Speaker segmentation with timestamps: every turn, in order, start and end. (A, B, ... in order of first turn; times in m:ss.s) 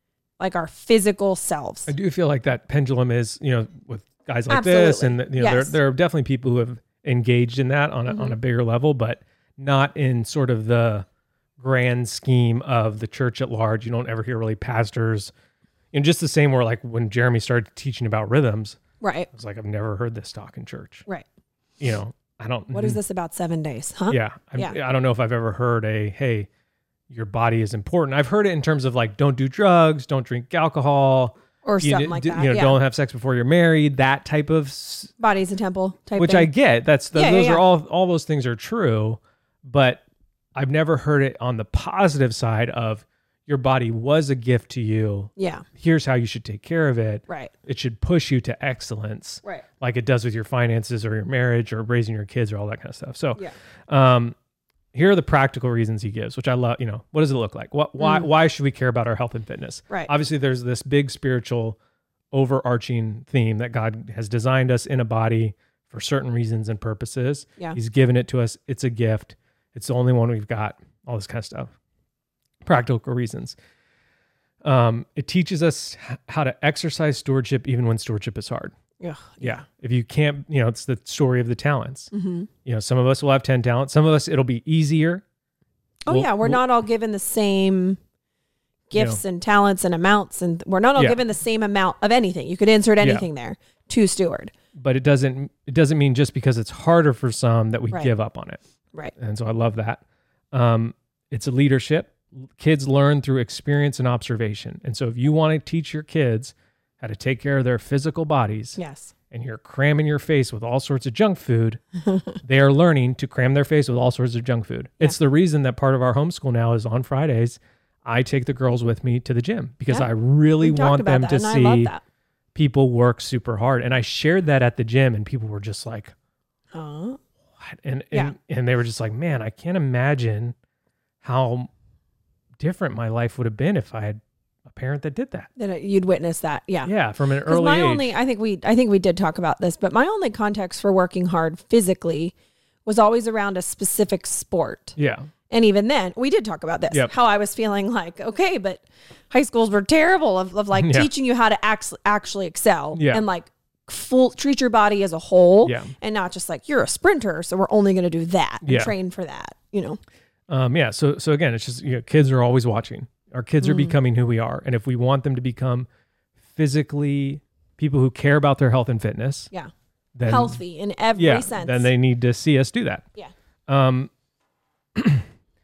0:00.4-0:01.9 A
0:01.9-0:11.1 B
0:04.5-0:05.8 A
0:08.1-0:08.4 A
0:11.6-0:15.3 B
0:15.9-0:21.1 B
0:19.0-0:19.3 A
0:21.8-0:23.0 B
0:22.7-0:24.8 A
0:24.1-0:26.5 B
0:27.1-0:35.1 B
0:31.6-0:32.8 A
0:35.2-0:36.5 A
0:36.2-0:40.0 B
0:37.1-0:37.6 A
0:40.6-0:54.4 B
0:45.4-0:45.6 A
0:54.9-1:01.8 B
1:02.3-1:11.7 B
1:12.6-1:13.6 B
1:14.6-1:18.8 B
1:19.0-1:19.6 A
1:19.4-1:22.1 B
1:22.1-1:22.5 A
1:22.6-1:25.2 B
1:26.1-1:28.0 A
1:26.1-1:26.6 B
1:28.9-1:34.5 A
1:28.9-1:29.2 B
1:33.0-1:33.3 B
1:34.8-1:38.6 B
1:39.2-1:48.8 B
1:48.8-1:49.1 A
1:49.3-1:51.8 B
1:52.1-1:52.3 A
1:52.4-2:01.9 B
1:59.9-2:02.0 A
2:02.6-2:06.1 B
2:06.7-2:07.2 A
2:07.6-2:10.6 B
2:11.2-2:11.7 B
2:12.6-2:15.5 B
2:15.6-2:16.9 A
2:16.8-2:18.1 B
2:17.5-2:22.3 A
2:22.8-2:25.0 A
2:25.0-2:25.3 B
2:25.5-2:40.0 A
2:30.8-2:31.1 B
2:32.9-2:33.2 B
2:35.6-2:35.9 B
2:38.6-2:38.9 B
2:40.5-2:45.9 B
2:43.6-2:44.0 A
2:46.6-2:49.5 B
2:50.2-2:50.6 B
2:50.3-2:51.9 A
2:51.2-2:53.1 B
2:53.7-2:54.1 B
2:55.0-2:55.2 B